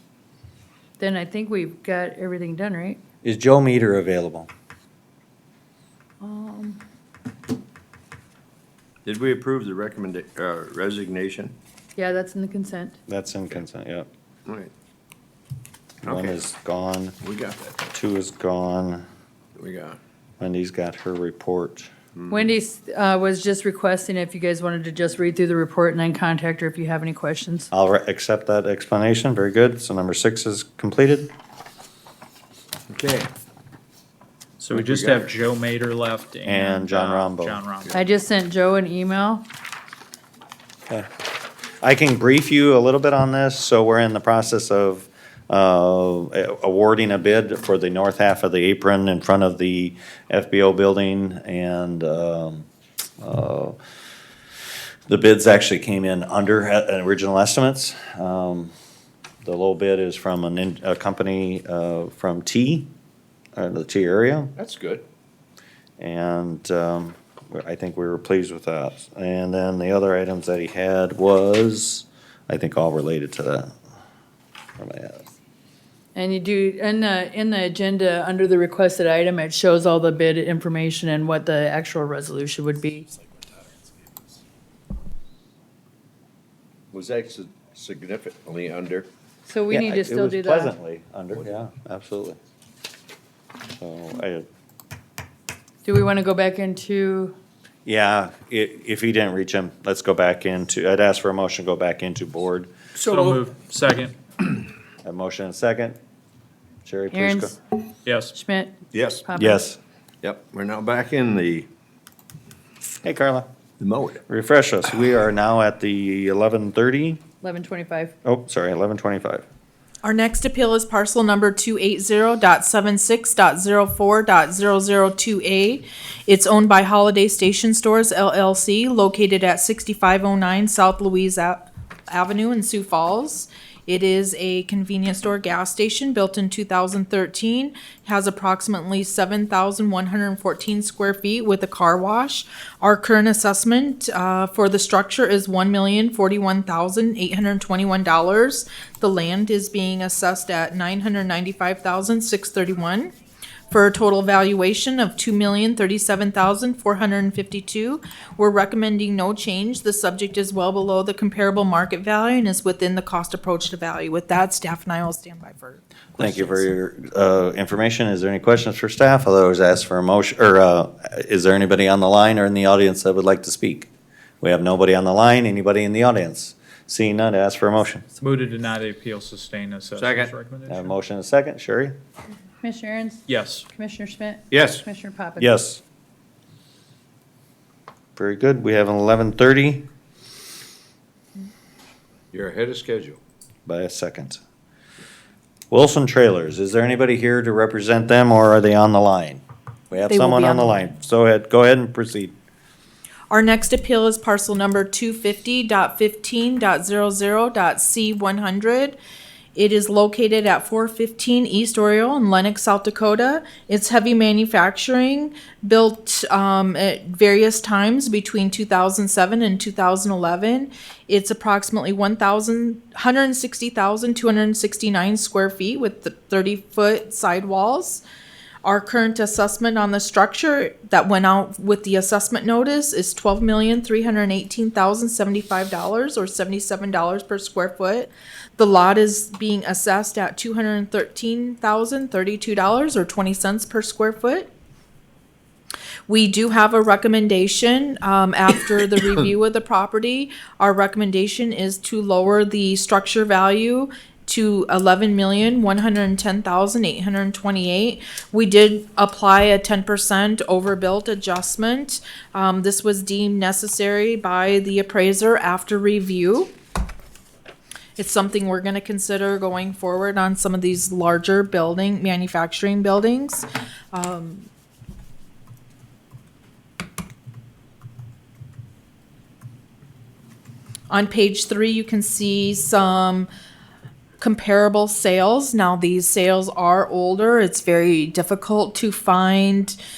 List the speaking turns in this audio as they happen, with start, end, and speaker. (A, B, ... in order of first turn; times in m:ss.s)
0:01.0-0:03.0 A
0:03.2-0:04.5 B
0:06.2-0:06.8 A
0:09.0-0:11.6 C
0:12.0-0:13.0 A
0:13.1-0:14.1 B
0:14.5-0:14.7 C
0:16.0-0:17.2 B
0:16.0-0:16.4 C
0:17.2-0:17.8 C
0:17.9-0:19.0 B
0:19.6-0:20.0 C
0:20.4-0:21.9 B
0:22.2-0:22.5 C
0:22.3-0:27.7 A
0:27.7-0:31.3 B
0:32.9-0:33.3 C
0:34.6-0:38.0 D
0:34.7-0:35.3 C
0:36.4-0:37.6 B
0:37.9-0:39.5 A
0:41.8-0:52.7 B
0:53.2-0:53.8 B
0:55.1-0:58.7 B
0:59.4-1:02.9 B
1:03.6-1:04.5 B
1:04.6-1:05.0 C
1:06.0-1:13.7 B
1:14.8-1:15.3 B
1:16.2-1:23.1 A
1:26.9-1:29.1 C
1:29.5-1:30.8 A
1:29.7-1:32.4 B
1:33.8-1:34.5 B
1:35.8-1:37.4 A
1:37.8-1:42.7 B
1:43.0-1:44.2 D
1:45.0-1:46.0 B
1:46.8-1:47.5 B
1:47.1-1:47.6 A
1:48.1-1:48.4 D
1:48.3-1:49.7 A
1:48.9-1:49.3 C
1:49.4-1:49.8 B
1:50.2-1:51.7 C
1:53.0-1:53.5 B
1:53.8-1:54.2 C
1:54.3-1:57.2 B
1:57.4-1:58.2 A
1:58.2-1:59.4 B
2:00.0-2:33.1 E
2:33.7-2:46.7 E
2:46.2-2:53.9 B
2:54.4-2:58.0 B
2:58.2-3:00.9 D
3:00.0-3:00.3 C
3:00.7-3:02.0 B
3:02.6-3:05.6 A
3:03.3-3:03.7 D
3:04.5-3:04.8 C
3:05.4-3:05.8 B
3:08.2-3:09.8 B
3:12.3-3:13.2 C
3:13.7-3:14.4 B
3:15.7-3:22.3 B
3:20.1-3:20.8 E
3:23.3-3:29.0 E
3:29.6-3:48.0 E
3:48.6-4:04.5 E
4:06.1-4:26.5 E
4:28.0-4:34.5 E
4:40.9-4:43.3 E
4:44.2-4:49.8 E